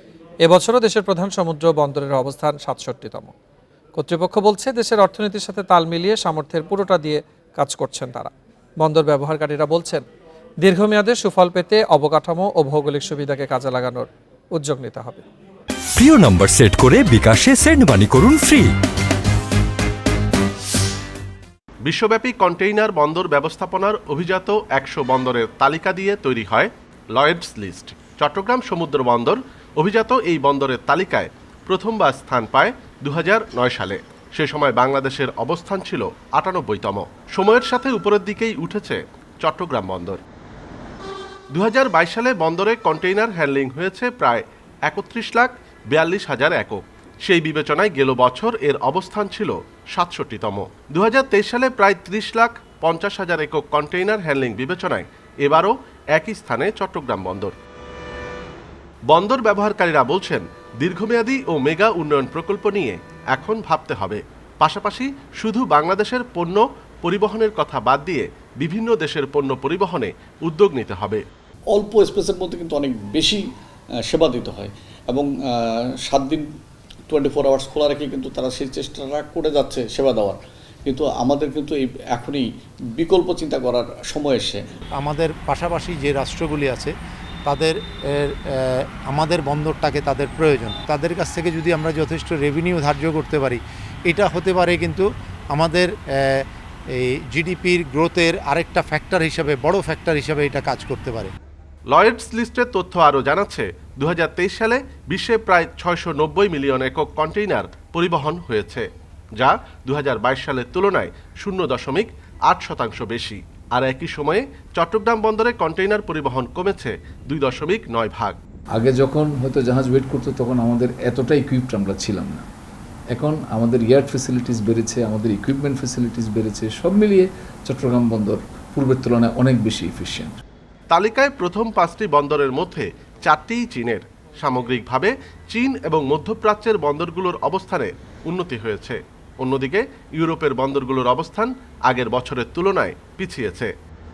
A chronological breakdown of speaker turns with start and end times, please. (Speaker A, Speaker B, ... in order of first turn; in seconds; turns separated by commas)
Speaker A: 0.4-3.3, Speaker A: 4.0-10.0, Speaker A: 10.6-15.2, Speaker B: 15.9-18.7, Speaker C: 21.8-40.2, Speaker C: 41.5-57.5, Speaker C: 59.1-71.2, Speaker D: 71.7-73.4, Speaker D: 74.0-76.5, Speaker D: 77.1-84.6, Speaker E: 85.0-86.9, Speaker E: 87.5-96.4, Speaker E: 97.0-101.3, Speaker C: 101.9-118.4, Speaker F: 118.8-122.5, Speaker F: 123.1-130.4, Speaker C: 130.9-143.7